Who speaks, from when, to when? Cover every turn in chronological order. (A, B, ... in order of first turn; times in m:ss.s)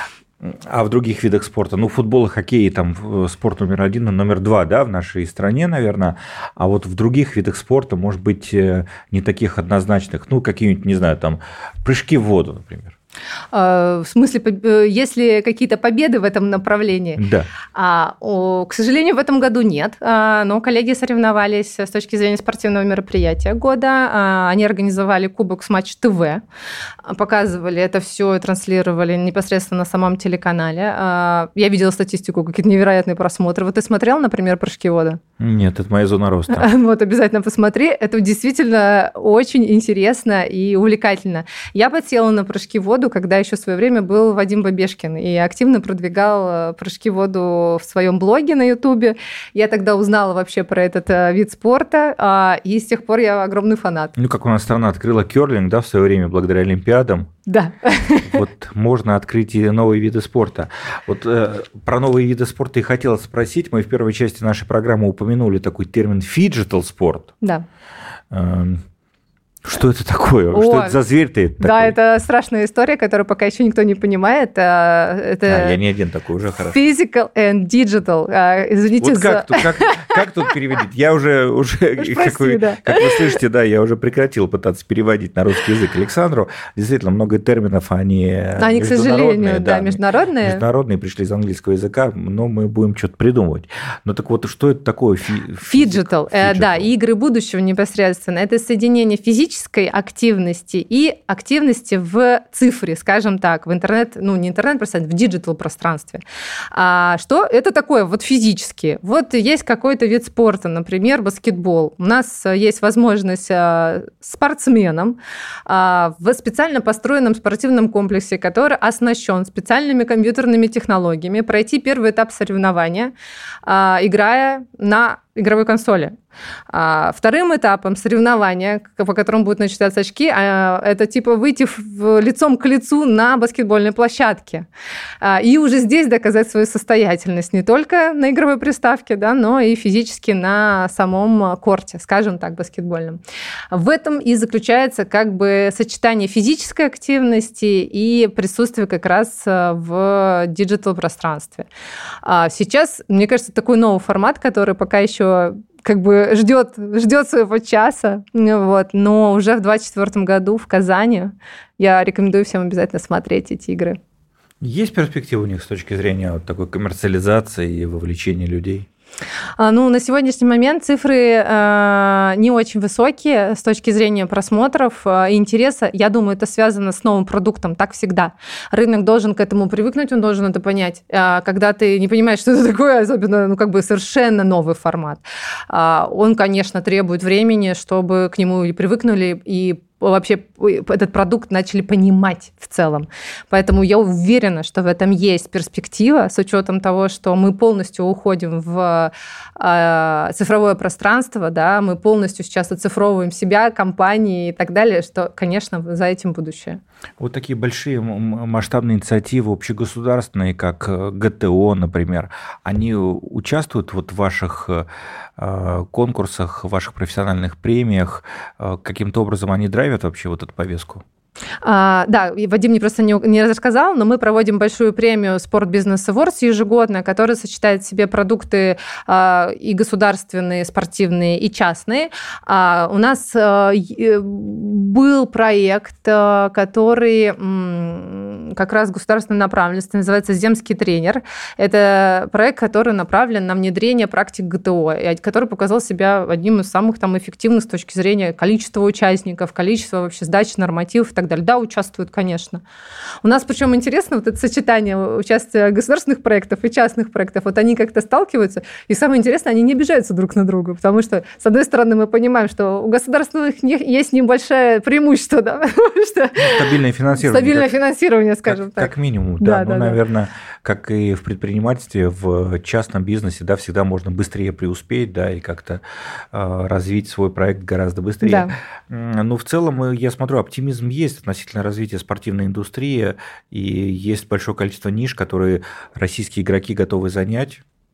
0:00.4-0:13.0 A
0:13.5-0:17.2 B
0:17.2-0:17.5 A
0:17.7-0:26.4 B
0:27.1-0:35.2 B
0:35.4-0:36.7 A
0:36.5-0:54.1 B
0:54.2-0:57.3 A
0:57.5-0:58.4 B
0:58.2-1:07.3 A
1:08.3-1:08.8 A
1:09.6-1:12.0 A
1:10.5-1:11.0 B
1:11.6-1:15.8 B
1:15.5-1:16.8 A
1:16.7-1:20.1 B
1:19.0-1:36.9 A
1:22.0-1:23.4 B
1:28.6-1:30.6 B
1:35.6-2:03.1 B
2:03.6-2:06.2 B
2:06.7-2:14.7 B
2:15.2-2:23.2 B
2:23.7-2:31.7 B
2:32.2-2:44.0 B
2:44.6-2:48.9 A
2:49.6-3:26.8 B
3:27.2-3:34.9 A
3:35.4-3:41.0 A
3:41.6-4:12.6 B
4:13.2-4:30.0 B
4:26.4-4:27.7 A
4:28.5-4:47.6 A
4:38.2-4:38.5 B